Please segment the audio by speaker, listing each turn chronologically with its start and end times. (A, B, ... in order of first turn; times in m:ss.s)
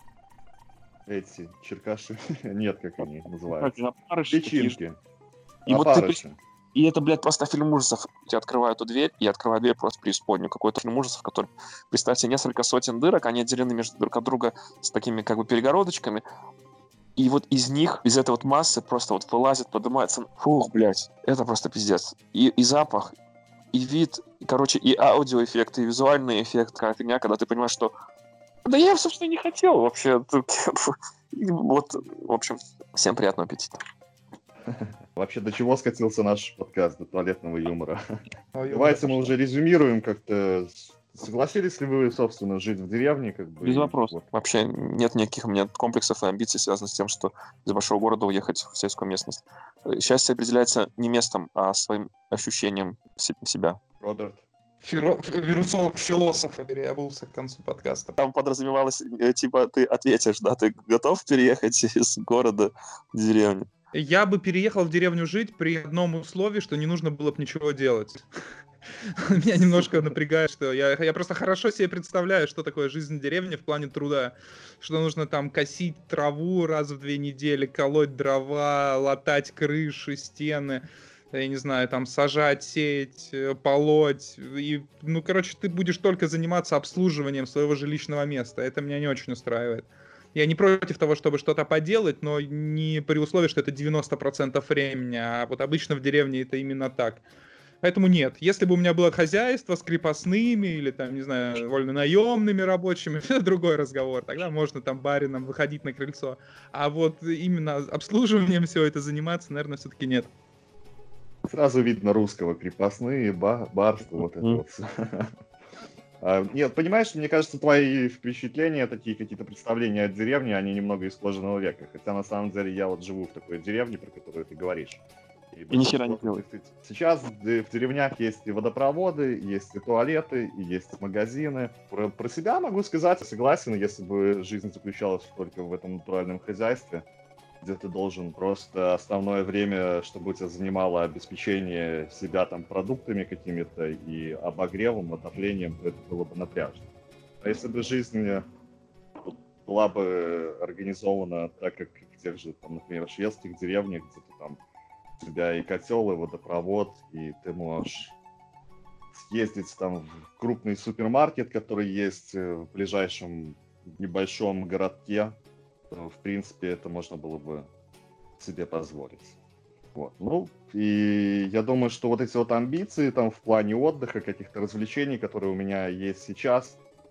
0:01.1-0:03.8 A
0:03.5-0:04.8 B
0:04.3-0:05.0 A
0:05.6-0:06.4 A
0:05.7-0:06.2 B
0:06.7-0:16.2 B
0:17.2-0:23.1 B
0:23.7-0:27.9 B
0:28.6-0:33.8 B
0:34.7-0:38.0 A
0:38.5-0:39.3 C
0:38.7-0:44.3 A
0:43.6-0:53.8 B
0:54.0-0:54.4 A
0:54.8-0:58.2 C
0:58.2-1:03.7 B
1:03.9-1:08.2 C
1:09.0-1:37.2 C
1:37.8-1:50.3 C
1:51.4-1:55.3 A
1:54.2-1:54.6 B
1:56.2-2:17.0 A
2:05.7-2:06.4 B
2:17.6-2:26.8 A
2:27.4-2:28.4 A
2:29.2-2:34.6 A
2:35.2-2:38.2 A
2:39.1-2:45.4 A
2:45.9-2:47.7 A
2:48.4-2:49.4 A
2:49.9-2:56.8 A